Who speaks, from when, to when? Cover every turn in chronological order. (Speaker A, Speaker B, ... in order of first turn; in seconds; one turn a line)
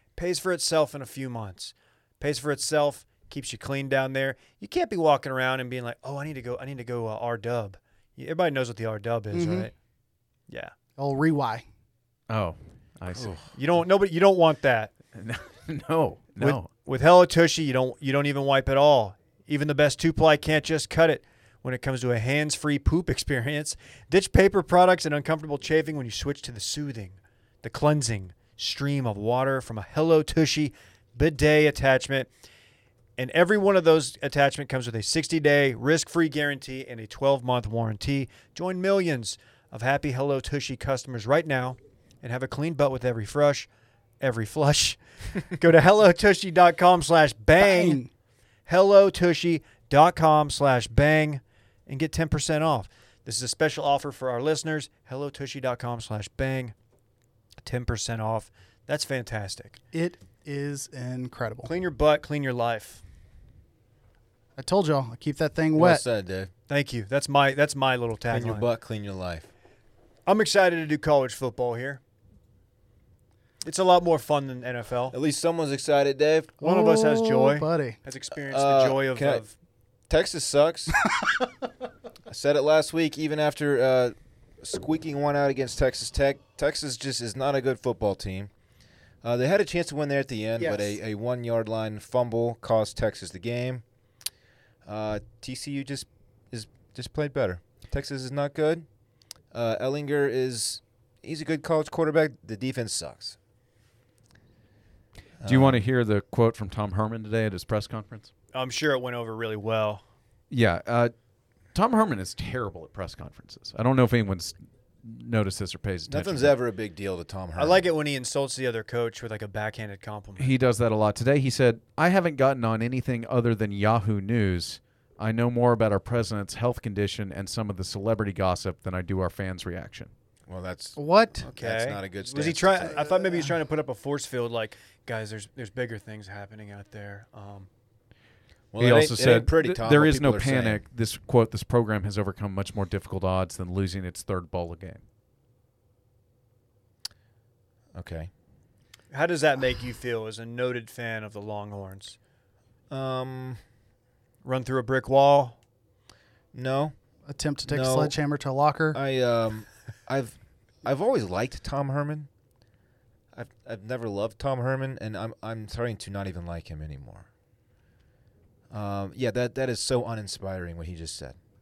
Speaker A: 0.2-9.7
Speaker B: 9.3-9.7
Speaker B: 11.0-11.6
Speaker C: 12.3-13.3
Speaker D: 13.1-13.5
Speaker A: 13.5-14.9
Speaker C: 15.1-16.7
Speaker A: 16.4-32.3
Speaker A: 33.2-43.7
Speaker A: 44.2-48.0
Speaker B: 47.6-48.1
Speaker A: 48.7-56.7
Speaker A: 57.6-59.8
Speaker B: 59.9-61.7
Speaker A: 61.6-63.0
Speaker B: 64.6-66.0
Speaker D: 65.8-66.5
Speaker A: 66.7-68.7
Speaker D: 68.3-69.5
Speaker A: 70.2-72.0
Speaker A: 73.6-75.2
Speaker D: 75.1-76.6
Speaker B: 76.6-78.0
Speaker A: 76.6-79.5
Speaker D: 78.5-79.4
Speaker D: 80.1-81.0
Speaker D: 82.3-88.5
Speaker D: 89.2-93.8
Speaker B: 90.6-91.0
Speaker D: 94.8-98.8
Speaker D: 99.5-103.4
Speaker D: 105.4-105.8
Speaker C: 105.4-108.3
Speaker A: 108.5-110.0
Speaker C: 110.5-111.1
Speaker C: 111.7-116.6
Speaker D: 116.1-117.8
Speaker A: 117.6-120.5
Speaker C: 120.4-130.1
Speaker D: 130.5-133.1
Speaker B: 130.9-131.4
Speaker A: 131.5-137.7
Speaker B: 132.9-133.5
Speaker D: 138.7-140.8
Speaker C: 138.8-145.0
Speaker D: 147.9-148.3
Speaker A: 149.1-152.2
Speaker D: 152.9-153.6
Speaker A: 154.4-155.6
Speaker D: 156.5-156.9
Speaker B: 157.3-159.0
Speaker D: 157.7-158.1
Speaker D: 158.9-162.3
Speaker D: 163.3-167.3
Speaker D: 168.7-171.3